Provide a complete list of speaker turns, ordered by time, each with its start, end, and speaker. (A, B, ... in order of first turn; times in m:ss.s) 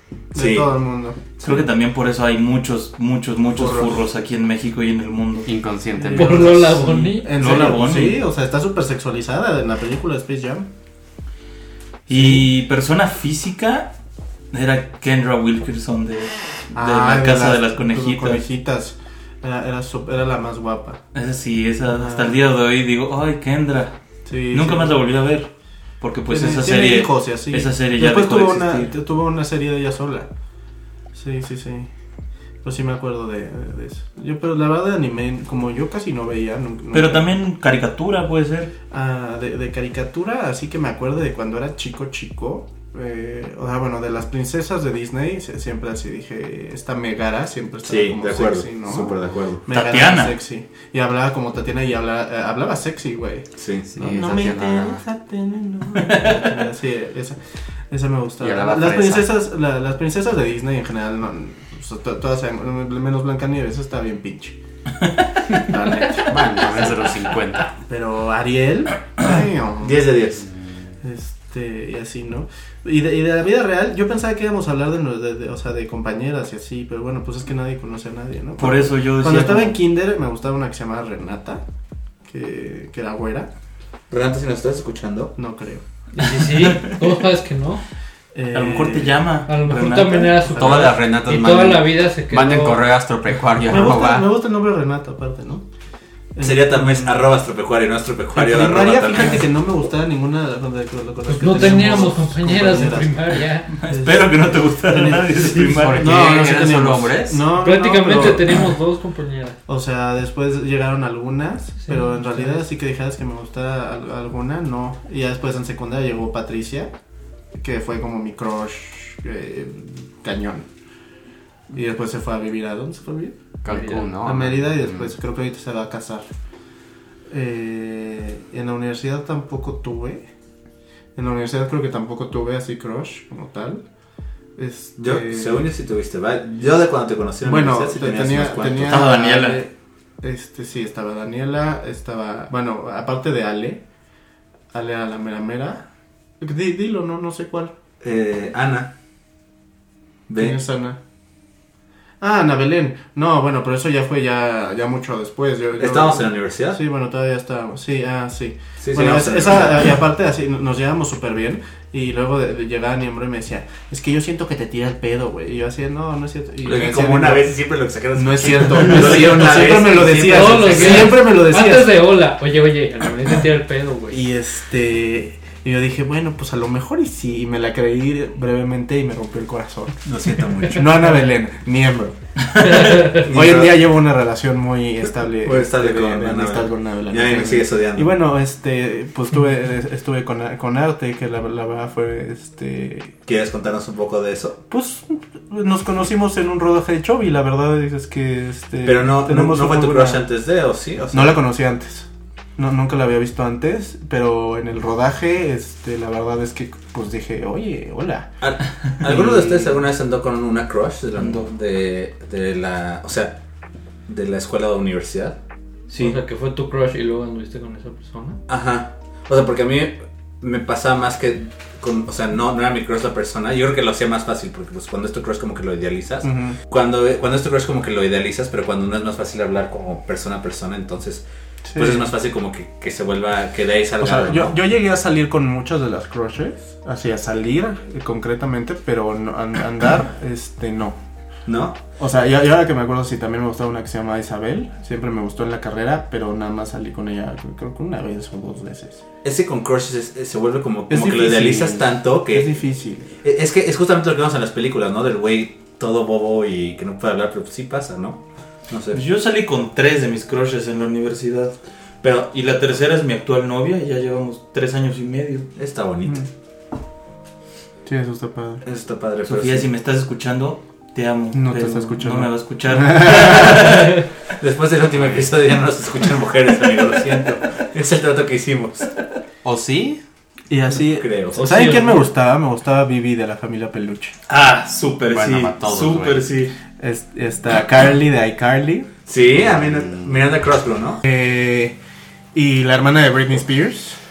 0:00.3-0:01.2 A
0:00.3-0:00.7 B
0:01.4-0:05.5 C
0:03.6-0:04.0 A
0:05.4-0:06.8 D
0:05.9-0:10.7 A
0:06.1-0:07.5 E
0:07.3-0:08.2 C
0:12.1-0:13.9 C
0:12.1-0:12.4 A
0:14.5-0:18.4 C
0:16.7-0:21.0 A
0:21.1-0:23.9 C
0:21.9-0:22.4 A
0:24.2-0:25.0 A
0:24.5-0:25.5 C
0:26.0-0:28.9 C
0:26.3-0:30.3 A
0:31.1-0:31.9 A
0:32.6-0:37.3 A
0:36.9-0:38.7 C
0:38.9-0:53.4 A
0:47.8-0:49.6 B
0:49.7-0:50.4 C
0:53.6-0:53.9 B
0:53.9-0:55.0 D
0:54.0-0:57.4 A
0:55.9-0:56.6 C
0:57.9-1:04.6 A
0:58.4-0:59.3 D
1:05.5-1:06.8 A
1:06.2-1:07.7 D
1:07.9-1:10.1 A
1:09.8-1:10.4 B
1:11.0-1:21.6 A
1:18.6-1:19.8 C
1:22.3-1:23.5 A
1:24.1-1:25.3 B
1:25.4-1:25.8 A
1:26.1-1:27.8 E
1:26.3-1:27.1 C
1:28.3-1:29.2 A
1:28.5-1:30.8 C
1:29.5-1:32.9 E
1:30.5-1:34.3 D
1:33.6-1:35.6 A
1:36.3-1:37.3 A
1:36.4-1:39.4 B
1:38.3-1:43.4 A
1:41.3-1:43.7 E
1:43.7-1:46.2 C
1:43.9-1:48.6 A
1:45.7-1:47.4 D
1:47.5-1:49.6 E
1:49.7-1:56.9 A
1:51.8-1:52.6 E
1:57.5-2:00.7 A
2:01.7-2:06.2 A
2:03.6-2:05.1 D
2:03.7-2:04.1 E
2:07.3-2:10.2 A
2:11.2-2:13.8 A
2:14.6-2:15.7 A
2:15.0-2:19.0 B
2:17.4-2:23.8 A
2:18.8-2:19.6 C
2:24.7-2:25.8 A
2:26.4-2:27.7 A
2:28.0-2:28.9 B
2:30.3-2:30.6 B
2:30.3-2:31.0 A
2:32.2-2:47.6 A
2:35.8-2:36.8 B
2:38.8-2:39.9 B
2:46.6-2:51.1 B
2:48.1-2:51.9 A
2:48.8-2:49.4 C
2:50.1-2:54.2 E
2:54.1-3:00.0 A
3:00.0-3:01.1 B
3:00.7-3:13.1 A
3:02.6-3:03.0 C
3:02.7-3:03.8 B
3:05.4-3:08.1 B
3:13.2-3:14.6 B
3:14.7-3:20.2 A
3:18.8-3:21.4 B
3:21.1-3:28.3 A
3:28.4-3:33.4 B
3:29.0-3:29.8 A
3:31.2-3:31.5 C
3:34.1-3:35.4 B
3:35.9-3:36.2 C
3:36.0-3:38.4 E
3:38.5-3:51.2 B
3:46.2-3:46.6 A
3:51.6-3:52.1 A
3:51.7-3:54.5 B
3:54.0-4:01.0 A
4:01.5-4:01.8 B
4:02.0-4:09.0 A
4:09.2-4:12.5 B
4:10.9-4:13.1 A
4:13.2-4:19.0 B
4:18.9-4:21.6 C
4:22.0-4:22.3 B
4:22.3-4:25.5 C
4:25.6-4:26.2 B
4:27.8-4:28.6 A
4:28.6-4:29.7 B
4:29.2-4:34.0 C
4:31.3-4:33.7 A
4:34.4-4:38.9 B
4:36.6-4:37.0 C
4:39.4-4:40.0 D
4:40.5-4:44.1 A
4:40.8-4:41.4 B
4:41.4-4:42.0 E
4:41.5-4:41.8 C
4:44.3-4:46.5 C
4:45.1-4:46.2 D
4:46.8-4:48.9 A
4:49.1-4:51.0 B
4:49.5-4:50.0 D
4:51.0-4:51.8 A
4:52.3-4:54.0 A